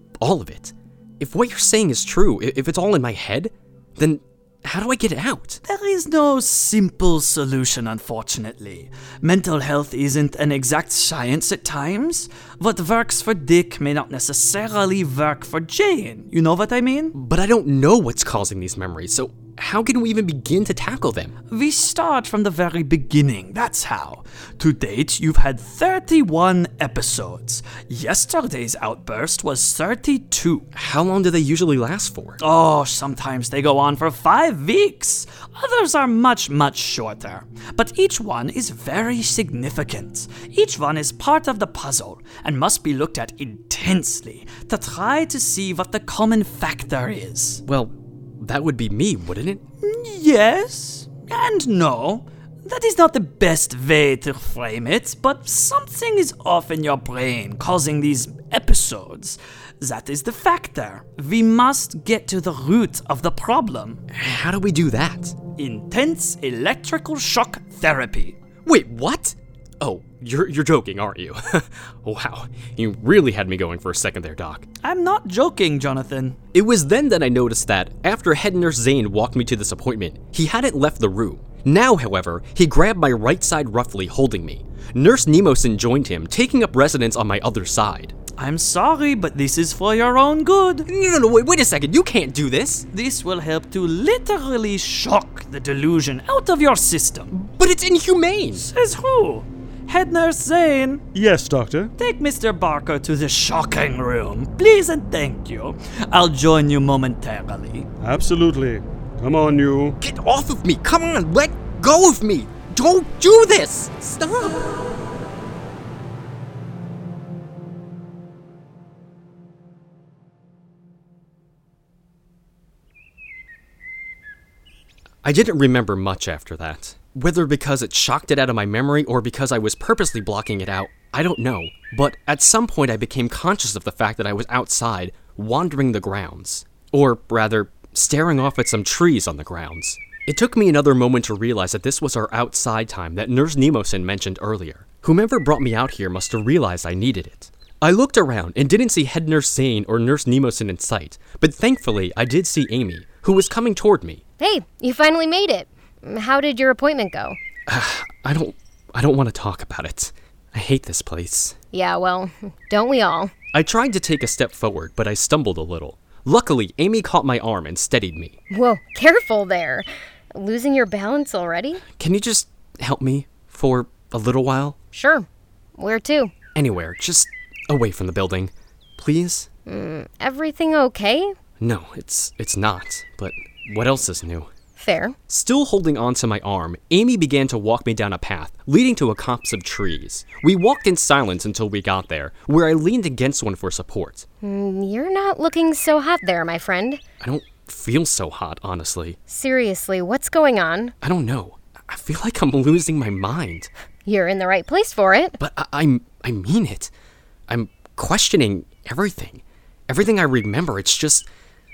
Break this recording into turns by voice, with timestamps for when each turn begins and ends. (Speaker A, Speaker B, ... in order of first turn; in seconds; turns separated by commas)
Speaker A: 0.2-5.6, Speaker B: 5.7-17.1, Speaker A: 17.1-21.3, Speaker B: 21.5-30.6, Speaker A: 30.7-32.4, Speaker B: 32.4-47.6, Speaker A: 47.6-49.6, Speaker B: 49.8-64.0, Speaker A: 64.1-65.3, Speaker B: 65.6-68.4, Speaker A: 68.6-74.7, Speaker B: 74.8-76.4, Speaker A: 76.5-88.1, Speaker B: 88.4-90.8, Speaker A: 90.9-92.8, Speaker B: 92.9-97.3, Speaker A: 97.3-98.7, Speaker B: 98.6-101.0, Speaker C: 101.1-101.9, Speaker B: 102.0-107.9, Speaker C: 108.0-110.0, Speaker A: 110.0-114.7, Speaker A: 125.2-154.2, Speaker D: 154.4-157.4, Speaker A: 157.7-161.5, Speaker D: 161.7-163.3, Speaker A: 163.5-168.4, Speaker D: 168.5-171.8, Speaker A: 171.9-174.8, Speaker D: 174.9-176.3, Speaker A: 176.5-179.5, Speaker D: 179.7-181.3, Speaker A: 181.6-184.5, Speaker D: 184.8-185.1, Speaker A: 185.3-194.2, Speaker D: 194.4-197.0, Speaker A: 197.2-199.2, Speaker D: 199.3-200.9, Speaker A: 201.0-203.7, Speaker D: 204.0-205.4, Speaker A: 205.4-206.9, Speaker A: 207.5-211.3